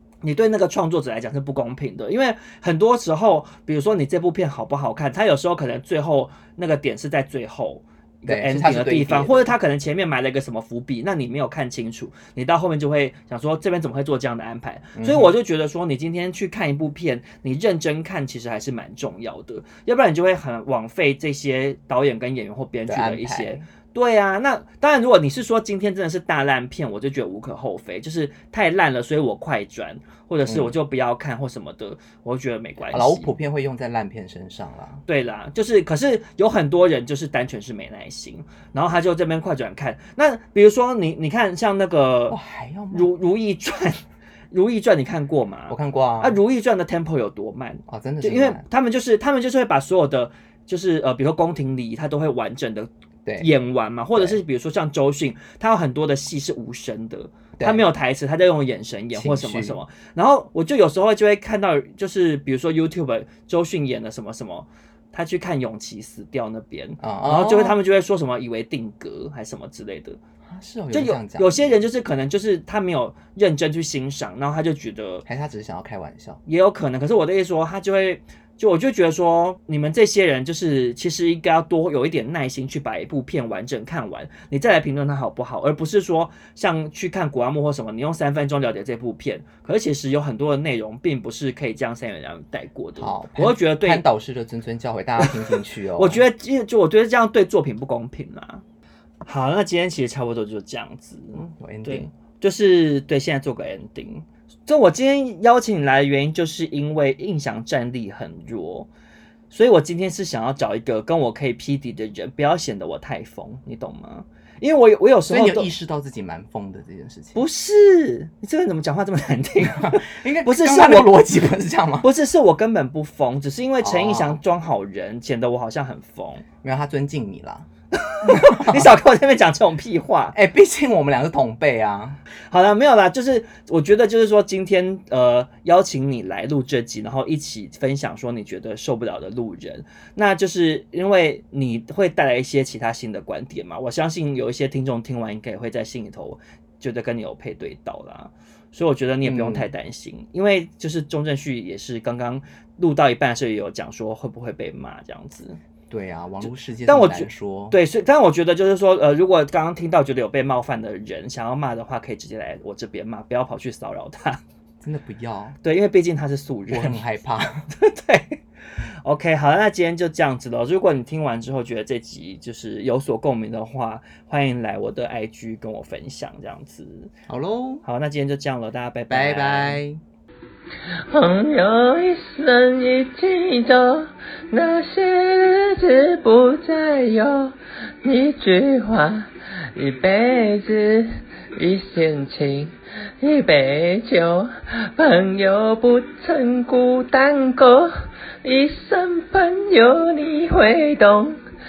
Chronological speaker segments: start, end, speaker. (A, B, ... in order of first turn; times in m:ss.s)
0:00.2-0:33.3 A
0:08.2-0:09.5 B
0:14.9-0:15.3 B
0:22.9-0:23.6 B
0:30.4-0:30.8 B
0:32.9-0:35.0 B
0:35.1-0:42.4 A
0:42.3-0:43.1 B
0:42.9-1:10.2 A
0:45.7-0:46.4 B
0:47.9-0:48.6 B
0:57.6-0:57.8 B
0:59.1-0:59.8 B
1:07.0-1:07.8 B
1:10.5-1:11.8 B
1:10.9-1:15.2 A
1:15.2-1:16.4 B
1:16.4-1:34.0 A
1:33.0-1:36.2 B
1:35.2-1:38.6 A
1:39.2-1:48.9 A
1:41.3-1:42.1 B
1:49.5-1:55.7 A
1:55.3-1:57.4 B
1:57.3-2:01.4 A
1:59.7-2:02.1 B
2:02.0-2:06.4 A
2:03.8-2:04.4 B
2:06.6-2:07.7 B
2:07.9-2:10.3 A
2:08.2-2:08.9 B
2:10.3-2:12.2 B
2:12.5-2:35.6 A
2:29.2-2:29.7 B
2:35.9-2:37.8 B
2:36.4-2:44.4 A
2:44.8-2:45.6 B
2:45.6-2:47.0 A
2:46.7-2:47.7 B
2:47.7-2:57.1 A
2:57.3-2:57.8 B
2:57.8-2:59.8 A
2:59.1-3:00.0 B
3:01.1-3:21.4 C